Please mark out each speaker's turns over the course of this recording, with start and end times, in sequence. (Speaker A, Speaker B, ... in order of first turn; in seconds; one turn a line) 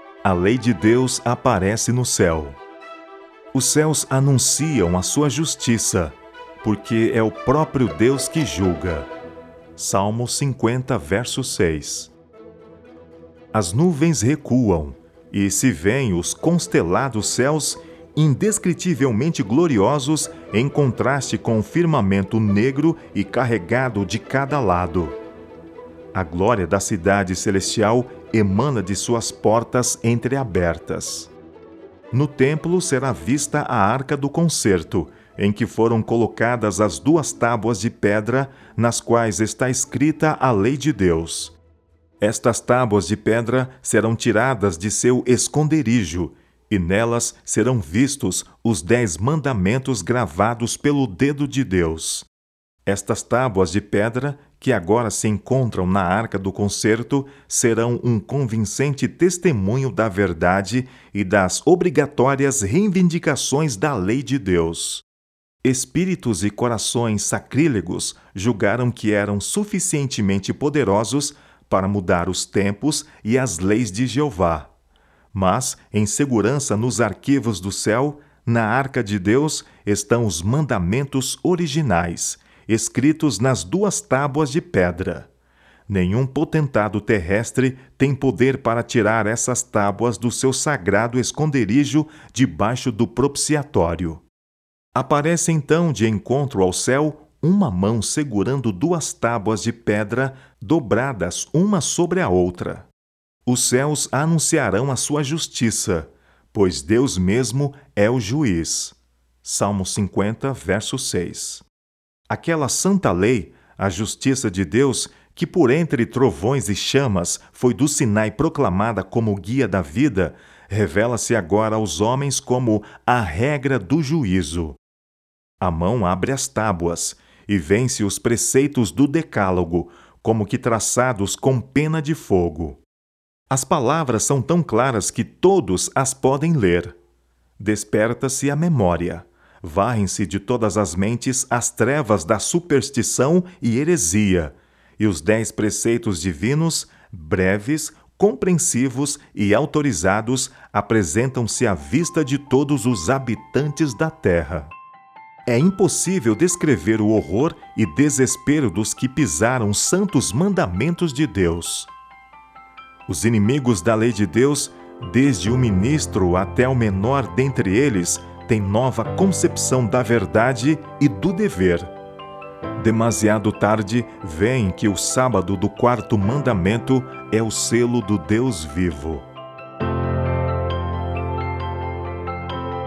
Speaker A: 0.2-2.6
Speaker A: 3.5-9.1
Speaker A: 9.8-12.1
Speaker A: 13.5-25.2
Speaker A: 26.1-31.3
Speaker A: 32.1-41.6
Speaker A: 42.2-52.3
Speaker A: 52.9-65.0
Speaker A: 65.6-74.7
Speaker A: 75.3-85.3
Speaker A: 85.9-94.2
Speaker A: 94.9-102.9
Speaker A: 103.5-111.7
Speaker A: 112.3-124.8
Speaker A: 125.6-132.8
Speaker A: 133.5-137.0
Speaker A: 137.6-154.7
Speaker A: 155.5-161.9
Speaker A: 163.1-171.9
Speaker A: 172.8-179.3